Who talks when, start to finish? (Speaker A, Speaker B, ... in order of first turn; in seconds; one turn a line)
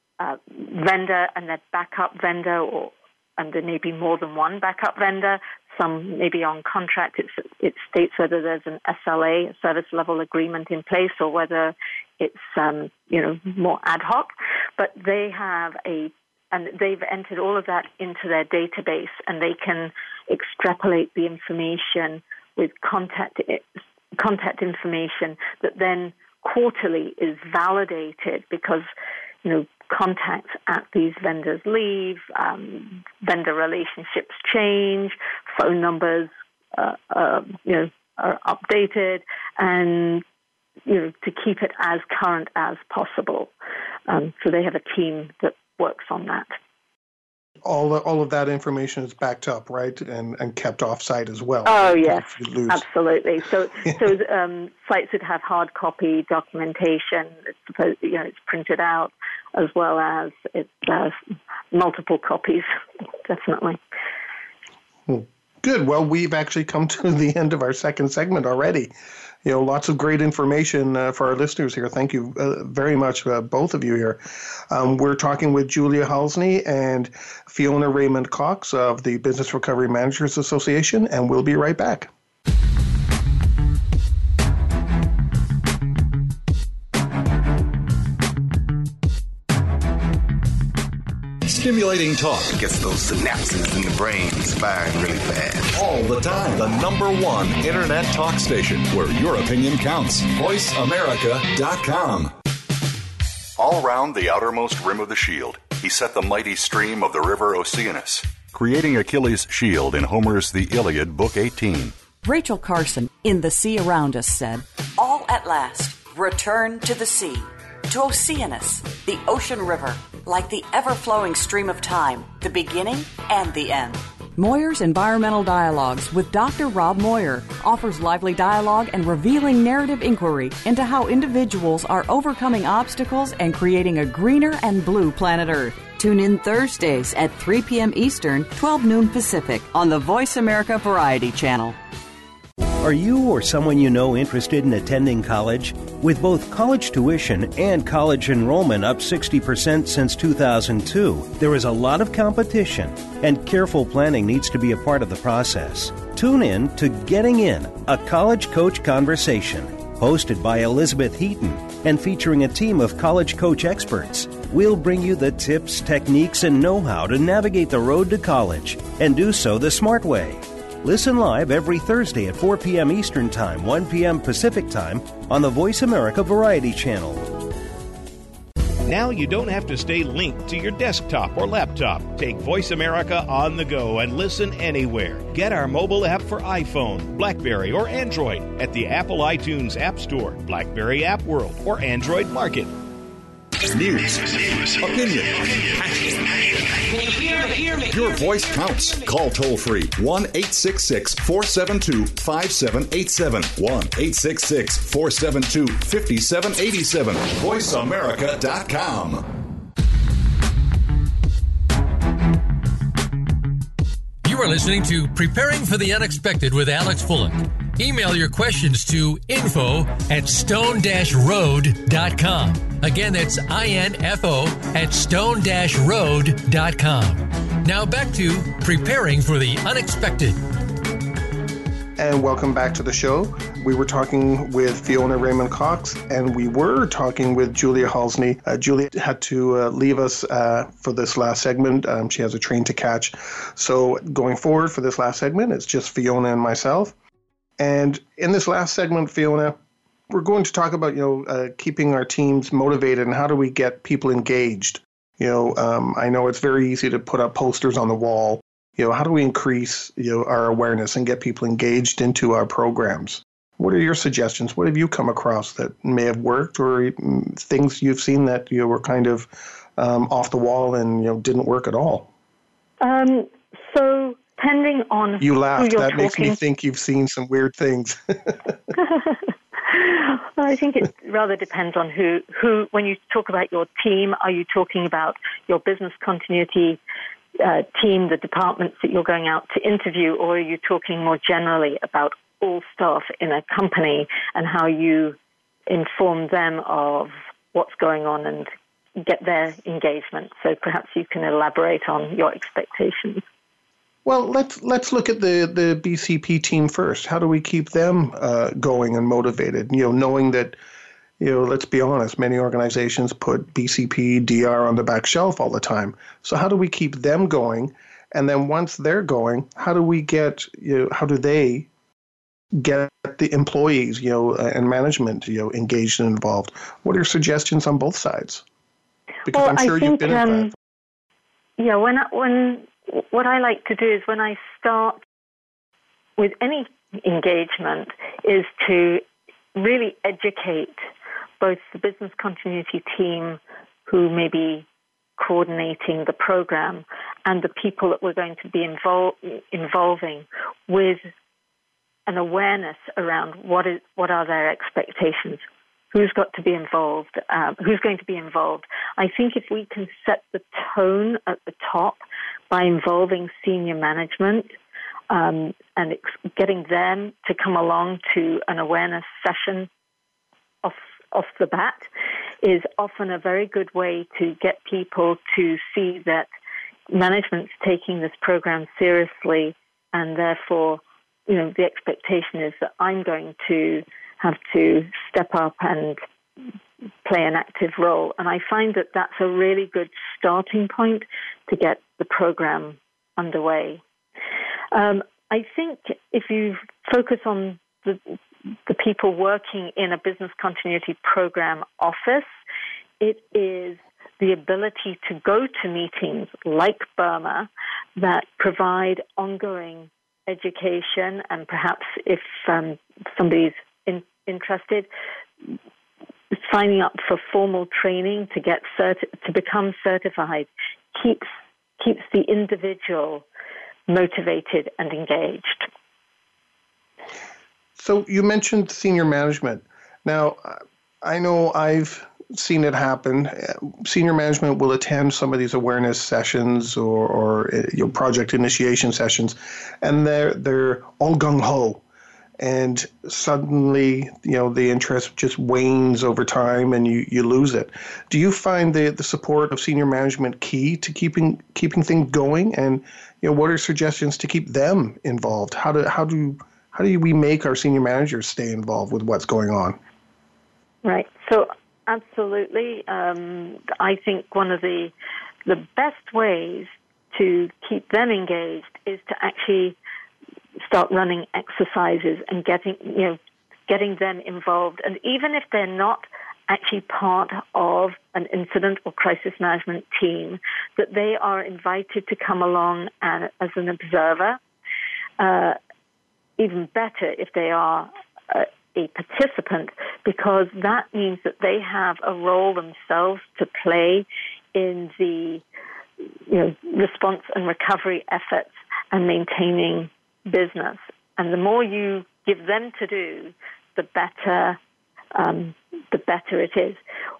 Speaker A: 0.2-23.6
Speaker A: 24.1-28.9
Speaker A: 29.4-40.2
Speaker A: 40.9-43.5
Speaker A: 44.1-46.5
Speaker B: 47.6-52.9
Speaker A: 51.6-61.2
Speaker A: 61.7-62.7
Speaker A: 63.2-63.8
Speaker B: 65.1-68.9
Speaker B: 69.4-82.1
Speaker C: 91.5-92.5
Speaker D: 92.5-95.8
Speaker C: 95.7-102.3
Speaker C: 103.6-111.9
Speaker E: 112.2-117.4
Speaker E: 117.9-141.8
Speaker F: 142.8-177.4
Speaker G: 178.8-192.8
Speaker C: 193.7-196.2
Speaker C: 197.7-209.2
Speaker H: 214.2-230.4
Speaker B: 232.0-246.9
Speaker B: 247.6-249.6
Speaker B: 250.1-272.1
Speaker A: 272.8-276.4
Speaker B: 275.2-278.6
Speaker A: 278.7-286.8
Speaker A: 287.4-295.2
Speaker A: 295.7-303.2
Speaker B: 304.0-310.6
Speaker B: 311.2-321.7
Speaker B: 322.5-328.4
Speaker B: 329.2-330.5
Speaker A: 329.3-330.5
Speaker A: 331.6-335.0
Speaker A: 336.2-339.0
Speaker A: 339.5-340.8
Speaker A: 341.4-344.6
Speaker A: 345.2-351.0
Speaker A: 352.1-364.5
Speaker A: 365.1-369.7
Speaker A: 370.6-371.9
Speaker A: 372.4-376.3
Speaker A: 376.9-386.0
Speaker A: 387.0-393.8
Speaker A: 394.7-398.1
Speaker A: 398.7-402.3
Speaker A: 403.0-414.9
Speaker A: 416.3-421.2
Speaker A: 421.8-423.2
Speaker A: 423.9-425.7
Speaker B: 427.8-441.8
Speaker B: 442.4-459.8
Speaker A: 460.8-464.9
Speaker A: 465.4-469.8
Speaker A: 470.6-484.4
Speaker A: 485.2-485.6
Speaker A: 486.4-495.4
Speaker A: 496.3-504.6
Speaker A: 505.1-506.8